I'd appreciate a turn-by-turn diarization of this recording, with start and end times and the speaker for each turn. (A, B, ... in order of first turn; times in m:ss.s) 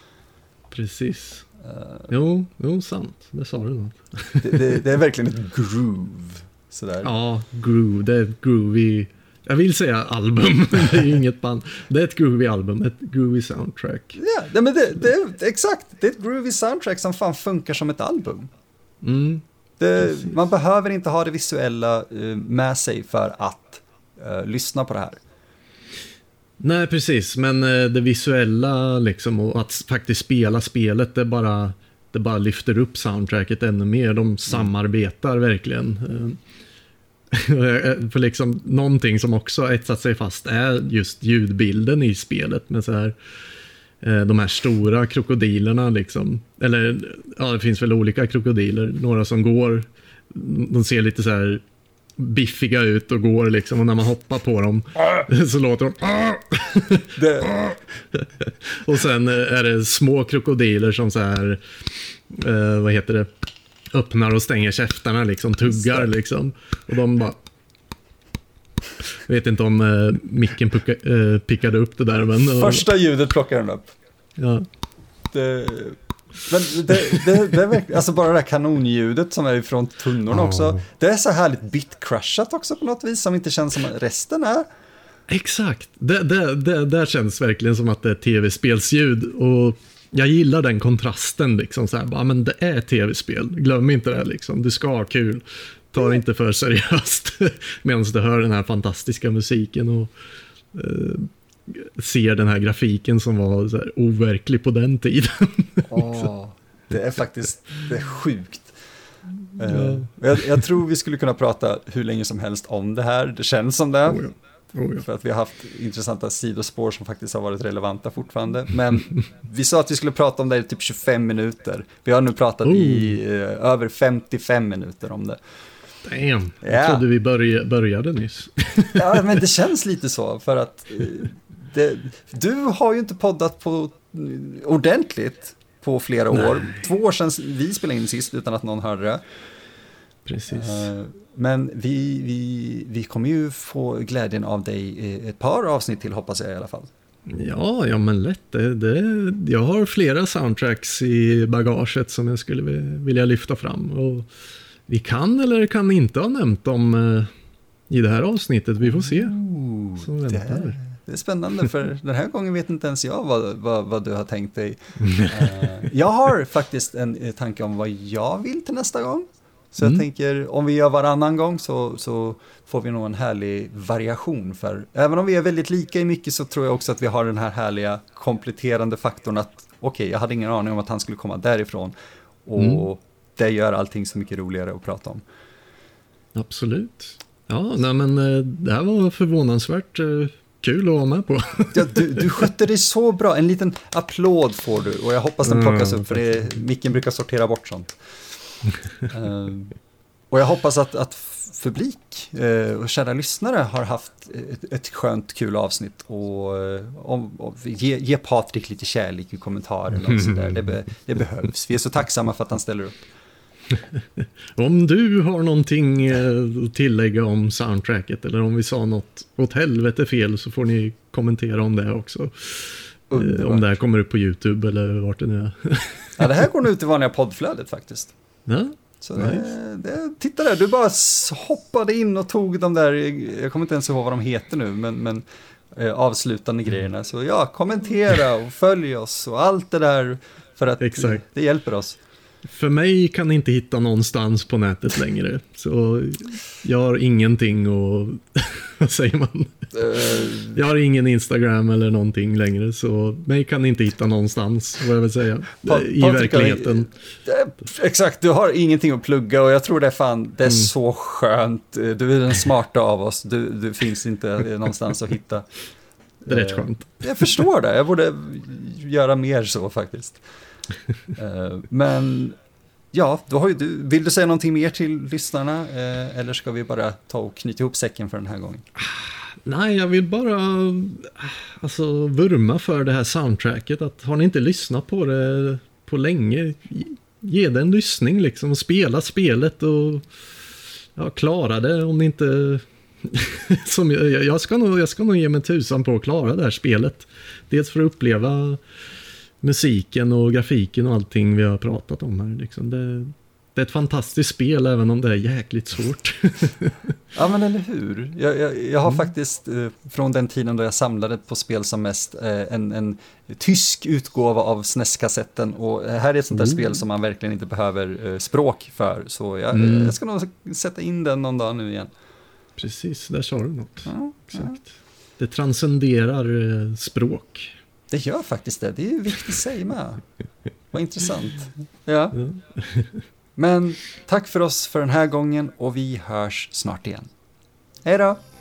0:00.7-0:01.5 A
0:01.7-0:02.1 B
0:02.1-0:04.8 A
0:04.4-0:07.1 B
0:07.0-0:14.2 A
0:14.2-0:18.5 B
0:19.0-0:19.4 A
0:19.8-0:25.2 B
0:26.6-0:36.4 A
0:37.3-0:43.2 A
0:44.0-0:51.6 A
0:52.2-1:01.6 A
0:57.2-0:57.7 B
1:02.3-1:03.3 A
1:03.9-1:07.4 A
1:09.1-1:12.9 A
1:12.5-1:13.9 B
1:14.4-1:14.7 A
1:15.3-1:24.7 B
1:20.3-1:20.8 A
1:25.3-1:40.1 A
1:40.7-1:46.3 A
1:45.9-1:48.8 B
1:49.6-1:54.2 B
1:49.7-1:50.6 A
1:54.1-1:55.0 A
1:55.0-2:05.4 B
2:02.6-2:03.2 A
2:06.0-2:09.4 A
2:06.6-2:07.1 B
2:09.0-2:19.2 B
2:16.3-2:16.8 A
2:20.2-2:20.9 A
2:20.5-2:26.9 B
2:27.3-2:34.3 A
2:34.9-2:37.3 A
2:37.9-2:39.4 A
2:38.9-3:01.9 B
2:40.0-2:40.8 A
2:45.0-2:45.8 A
3:02.5-3:05.2 B
3:02.6-3:02.8 A
3:06.4-3:12.4 A
3:11.7-3:18.0 B
3:15.4-3:16.5 A
3:19.1-3:19.8 B
3:20.3-3:33.0 B
3:30.0-3:30.6 A
3:33.7-3:46.3 A
3:43.1-3:43.7 B
3:46.2-3:48.1 B
3:48.5-3:49.5 A
3:49.0-4:02.0 B
4:00.8-4:01.2 A
4:02.4-4:16.9 A
4:09.8-4:10.6 B
4:15.6-4:25.5 B
4:26.2-4:30.2 B
4:26.3-4:27.4 A
4:31.1-4:32.4 B
4:32.9-4:38.7 B
4:38.8-4:50.1 A
4:51.0-4:58.6 A
4:59.4-5:07.0 A
5:07.2-5:21.9 B
5:16.4-5:16.6 A
5:19.5-5:20.0 A
5:22.6-5:24.6 A
5:23.9-5:24.6 B
5:25.2-5:27.6 A
5:27.9-5:30.0 B
5:30.7-5:32.2 B
5:32.2-5:33.1 A
5:33.4-5:37.1 B
5:37.8-5:38.2 B